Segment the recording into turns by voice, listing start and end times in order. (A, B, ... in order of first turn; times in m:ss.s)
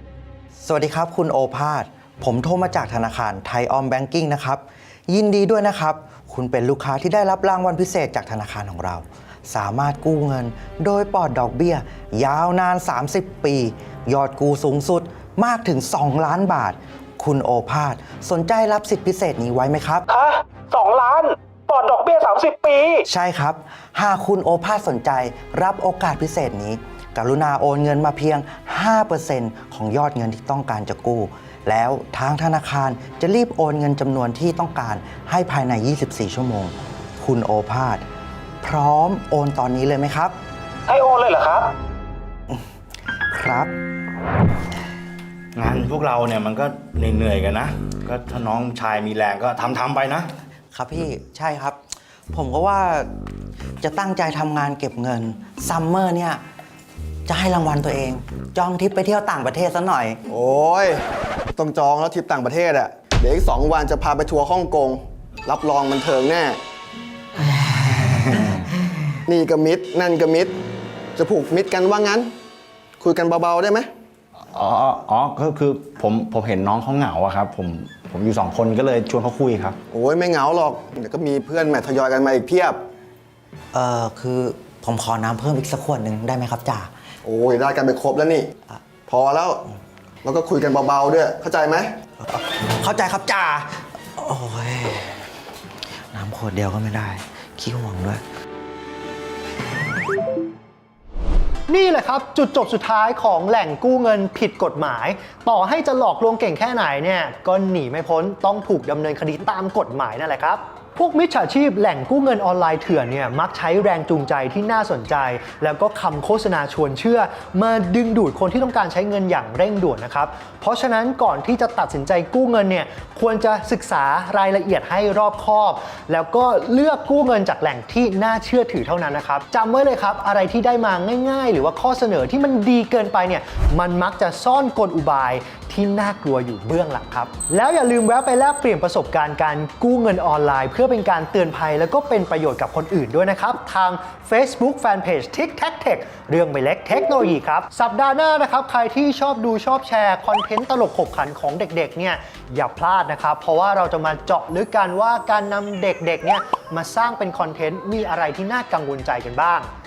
0:00.6-0:20.0 A
0:20.1-0:23.0 B
0:23.1-0:38.0 A
0:38.6-0:40.4 A
0:40.9-0:41.7 B
0:43.3-0:43.7 A
0:45.6-0:50.3 C
0:50.7-0:51.8 A
0:52.3-0:53.1 A
0:53.8-0:56.4 A
0:57.3-1:00.2 A
1:00.3-1:01.0 D
1:01.6-1:06.6 D
1:09.3-1:10.5 D
1:11.2-1:12.3 D
1:13.0-1:13.9 D
1:14.5-1:19.8 C
1:19.9-1:22.8 D
1:23.7-1:26.9 A
1:27.2-1:28.5 D
1:29.1-1:29.6 D
1:30.2-1:31.9 D
1:32.3-1:35.2 A
1:36.1-1:38.2 A
1:41.7-2:39.7 E